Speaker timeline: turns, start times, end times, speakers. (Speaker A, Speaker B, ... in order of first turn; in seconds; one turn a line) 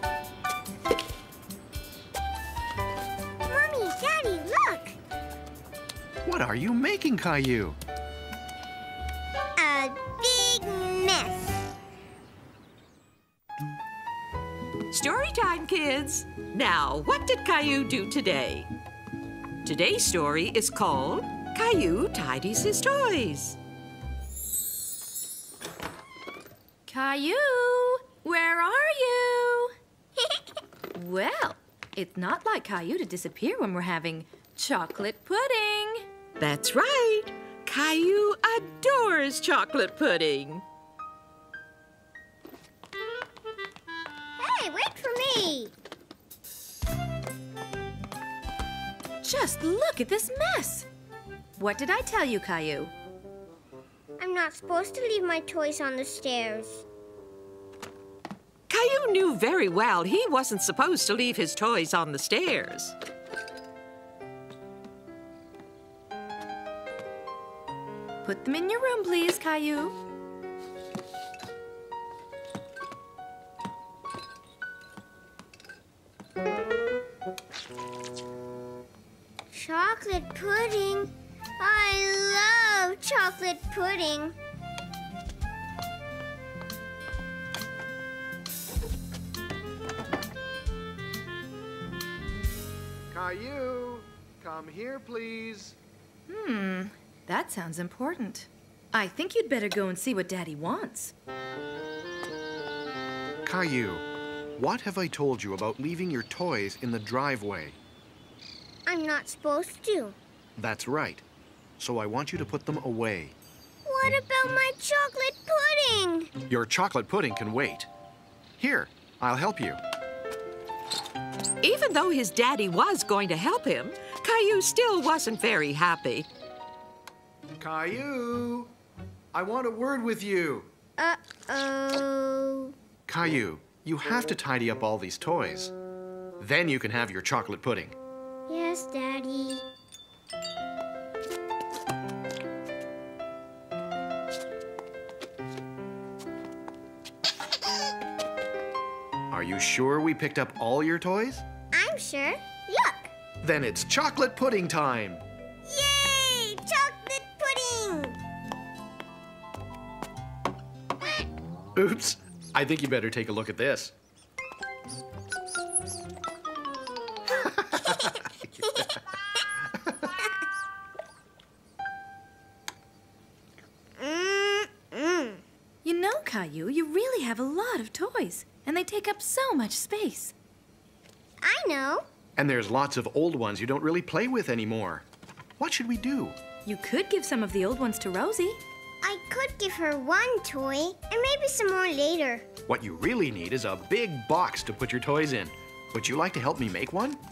Speaker A: 3.5-5.0
Speaker B: 6.2-7.8
Speaker A: 9.6-11.6
Speaker C: 14.9-18.7
Speaker C: 19.6-23.6
Speaker D: 26.9-29.7
Speaker D: 30.9-36.0
Speaker C: 36.4-40.6
Speaker A: 44.4-45.7
Speaker D: 49.2-50.9
Speaker D: 51.6-52.9
Speaker A: 54.2-56.9
Speaker C: 58.7-63.0
Speaker D: 68.2-70.0
Speaker A: 79.5-84.3
Speaker B: 93.1-95.8
Speaker D: 96.3-101.1
Speaker B: 103.5-107.8
Speaker A: 108.9-110.2
Speaker B: 110.6-111.2
Speaker B: 111.8-113.3
Speaker A: 113.8-116.3
Speaker B: 116.5-117.9
Speaker B: 118.6-119.8
Speaker C: 121.6-126.3
Speaker B: 127.6-128.7
Speaker B: 129.3-130.7
Speaker A: 131.0-132.7
Speaker B: 133.1-135.7
Speaker B: 136.4-138.0
Speaker A: 138.5-139.7
Speaker B: 149.3-151.4
Speaker A: 151.7-153.1
Speaker B: 153.4-155.2
Speaker A: 155.7-158.2
Speaker B: 161.8-163.9
Speaker B: 167.6-168.1
Speaker A: 167.9-168.9
Speaker A: 174.0-175.4
Speaker D: 175.8-180.3
Speaker A: 181.4-182.0
Speaker B: 182.4-185.1
Speaker B: 185.6-186.4
Speaker D: 186.7-188.6
Speaker A: 189.0-192.4
Speaker B: 192.7-197.2